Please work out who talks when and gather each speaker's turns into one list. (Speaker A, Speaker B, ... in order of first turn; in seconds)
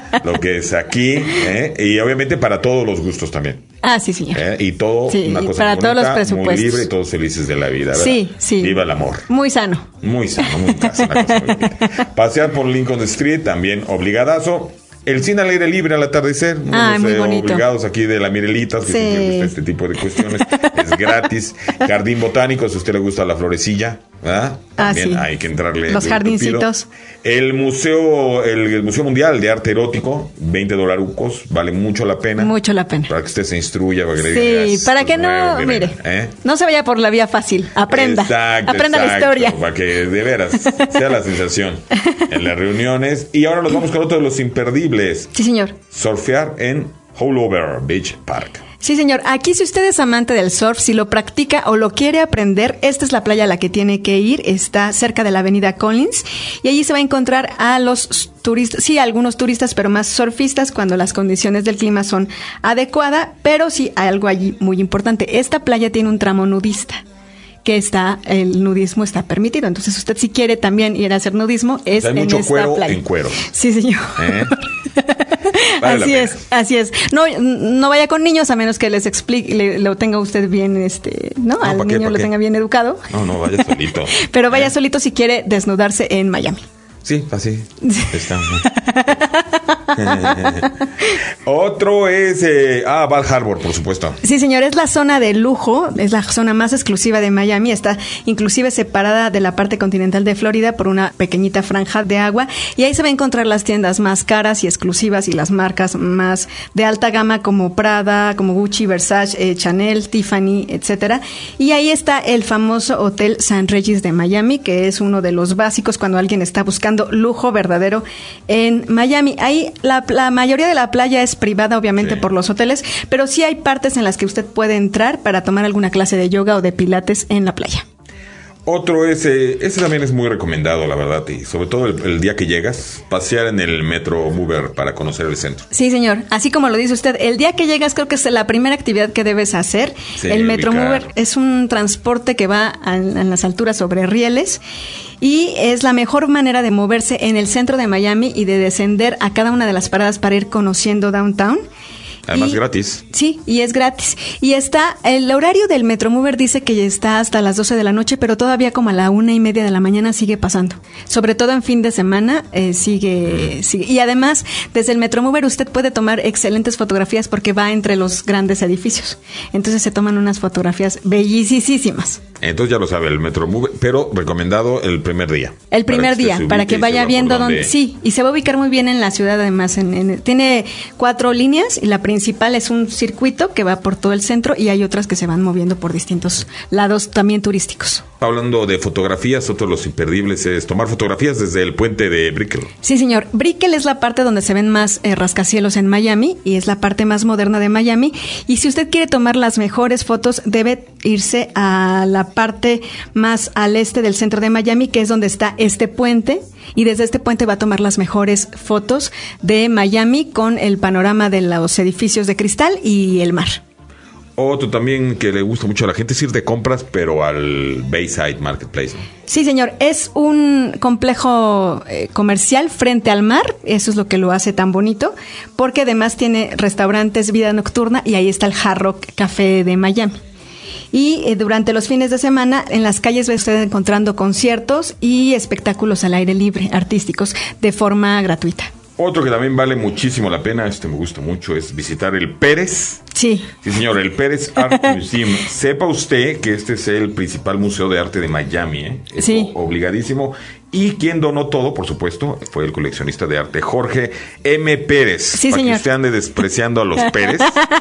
Speaker A: 0.2-3.6, 4.3-9.3, 10.0-26.7, 27.2-32.5, 33.1-36.4, 37.9-45.3, 45.9-48.6, 72.0-73.5, 74.2-74.6, 75.8-76.4, 81.6-82.3, 83.1-84.7, 87.0-88.7, 89.9-90.8, 91.5-94.2, 122.0-122.2, 128.7-135.7, 140.2-141.1, 152.3-153.0, 163.3-163.5, 172.4-177.8, 188.2-192.7, 214.4-219.1, 239.0-243.1, 243.6-257.6
Speaker B: 3.8-4.4, 5.1-6.9, 8.0-9.9, 11.2-11.6, 16.7-17.6, 18.9-19.5, 24.8-25.2, 25.9-26.9, 32.4-33.1, 34.3-39.6, 45.3-45.8, 48.8-67.0, 67.6-83.0, 84.2-86.6, 94.2-127.8, 135.7-144.6, 145.2-151.6, 152.3-152.6, 153.1-172.2, 175.7-188.0, 192.8-213.6, 219.3-230.2, 230.9-238.7, 243.2-243.5, 249.2-249.5, 255.4-255.8